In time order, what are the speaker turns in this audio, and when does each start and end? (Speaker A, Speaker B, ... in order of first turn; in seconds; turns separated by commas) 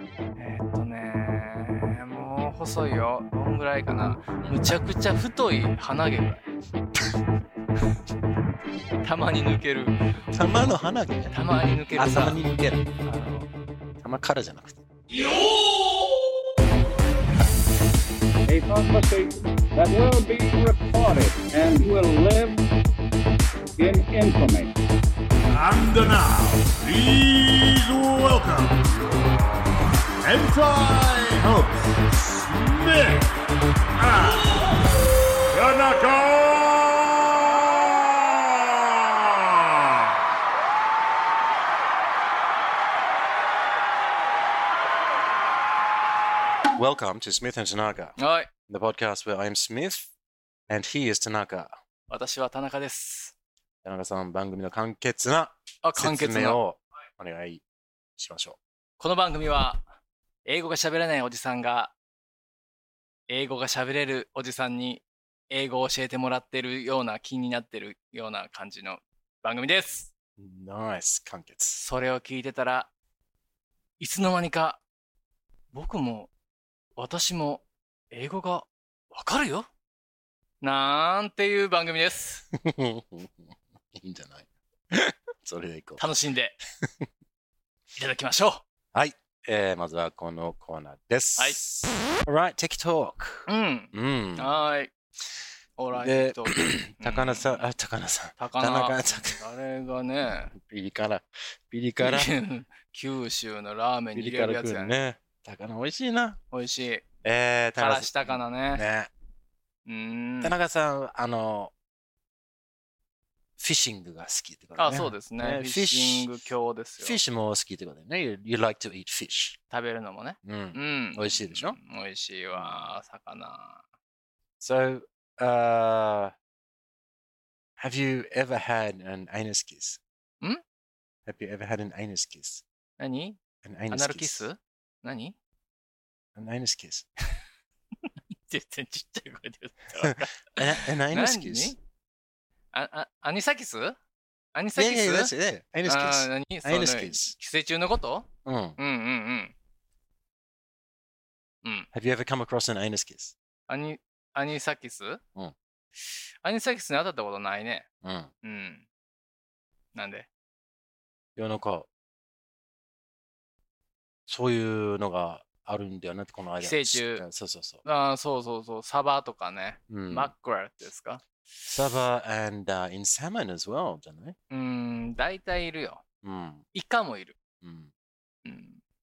Speaker A: 0.3-6.4, Speaker A: 9.0-10.6, Speaker B: 10.3-11.3, Speaker A: 11.3-12.4, Speaker B: 11.9-12.9, Speaker A: 13.0-13.5, Speaker B: 14.0-14.8, Speaker C: 18.5-22.6, Speaker C: 23.8-24.7, Speaker D: 25.6-28.7, Speaker D: 30.2-31.6, Speaker D: 32.6-33.2, Speaker D: 35.6-37.2, Speaker B: 46.7-48.1, Speaker A: 48.2-48.5, Speaker B: 48.7-50.1, Speaker B: 50.7-51.7, Speaker A: 52.1-53.3, Speaker B: 53.8-57.6, Speaker A: 55.8-56.6, Speaker B: 58.2-58.6, Speaker A: 59.0-59.8, Speaker A: 60.5-61.9, Speaker A: 63.3-70.1, Speaker B: 70.4-71.8, Speaker A: 71.8-72.9, Speaker A: 74.0-74.8, Speaker A: 75.7-76.3, Speaker A: 77.0-79.7, Speaker A: 80.6-82.4, Speaker B: 82.5-86.0, Speaker A: 86.0-86.6, Speaker B: 86.8-87.1, Speaker A: 88.0-88.6, Speaker B: 88.9-94.5, Speaker A: 93.5-94.9, Speaker A: 95.8-97.6, Speaker B: 95.9-99.4, Speaker A: 98.4-100.5, Speaker B: 100.5-102.3, Speaker A: 102.0-104.9, Speaker B: 104.1-106.4, Speaker A: 106.5-107.0, Speaker B: 107.2-109.1, Speaker A: 107.8-108.8, Speaker A: 109.8-110.5, Speaker B: 110.4-111.7, Speaker B: 113.6-116.3, Speaker A: 114.8-117.2, Speaker B: 117.0-119.6, Speaker A: 119.7-123.8, Speaker B: 120.4-121.8, Speaker B: 122.5-122.9, Speaker B: 124.6-126.3, Speaker B: 127.8-130.0, Speaker B: 131.2-132.6, Speaker A: 133.0-135.3, Speaker B: 133.6-134.5, Speaker B: 136.3-137.1, Speaker A: 138.5-141.8, Speaker B: 140.0-141.7, Speaker A: 142.7-144.0, Speaker A: 144.5-145.3, Speaker B: 144.8-147.3, Speaker A: 145.8-149.5, Speaker B: 148.4-148.8, Speaker A: 151.6-151.9, Speaker B: 151.9-153.3, Speaker A: 153.7-155.2, Speaker A: 156.1-157.9, Speaker B: 158.0-158.3, Speaker A: 158.4-158.8, Speaker A: 159.9-160.3, Speaker B: 161.3-161.9, Speaker B: 164.3-167.8, Speaker A: 166.6-167.2, Speaker A: 167.8-171.2, Speaker B: 169.9-170.3, Speaker B: 171.7-174.4, Speaker A: 174.5-176.0, Speaker B: 176.2-176.7, Speaker A: 176.7-177.4, Speaker B: 177.6-177.9, Speaker A: 178.4-178.8